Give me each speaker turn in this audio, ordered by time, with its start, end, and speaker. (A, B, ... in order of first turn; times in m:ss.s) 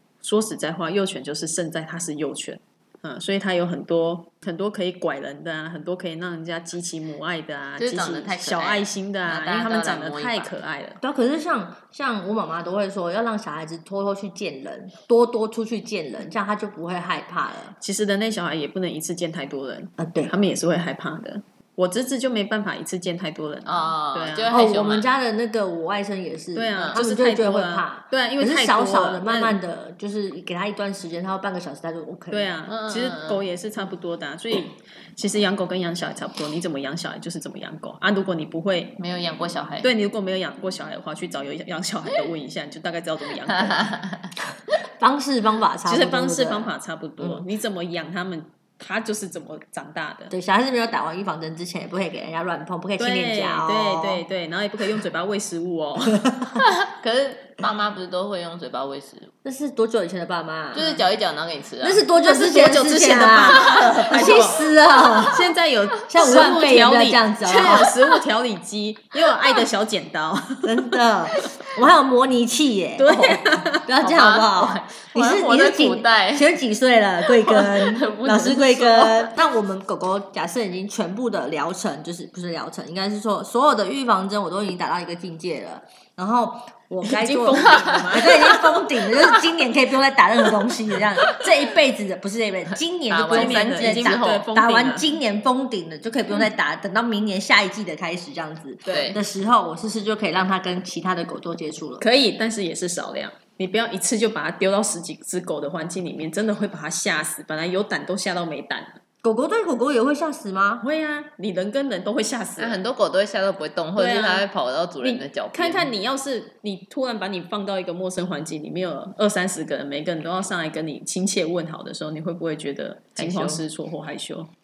0:00.2-0:11.0 A
0:07.8-0:10.5 B
0:11.0-0:17.8 C
0:17.8-0:24.5 A
0:20.0-0:20.3 C
0:23.6-0:25.1 B
0:24.5-0:32.6 C
0:26.5-0:29.6 A
0:32.3-0:39.0 A
0:32.7-0:33.4 B
0:39.0-0:39.9 B
0:39.8-0:44.0 A
0:43.6-0:44.2 B
0:45.0-0:47.4 C
0:45.8-0:50.3 A
0:50.3-0:54.2 C
0:53.0-0:56.3 A
0:56.6-0:59.3 B
0:59.4-1:00.9 C
1:00.7-1:02.0 B
1:01.8-1:05.4 C
1:02.2-1:04.7 A
1:05.2-1:11.0 A
1:06.1-1:07.9 C
1:10.6-1:42.0 C
1:13.0-1:13.8 A
1:14.0-1:16.6 B
1:17.2-1:19.3 B
1:27.0-1:28.9 A
1:33.1-1:34.5 B
1:33.3-1:35.1 A
1:38.9-1:39.1 A
1:38.9-1:39.2 B
1:42.0-1:49.0 A
1:49.2-1:50.8 C
1:50.8-1:52.8 A
1:52.6-1:55.9 B
1:54.0-1:54.4 A
1:55.0-2:04.5 A
2:03.2-2:03.6 B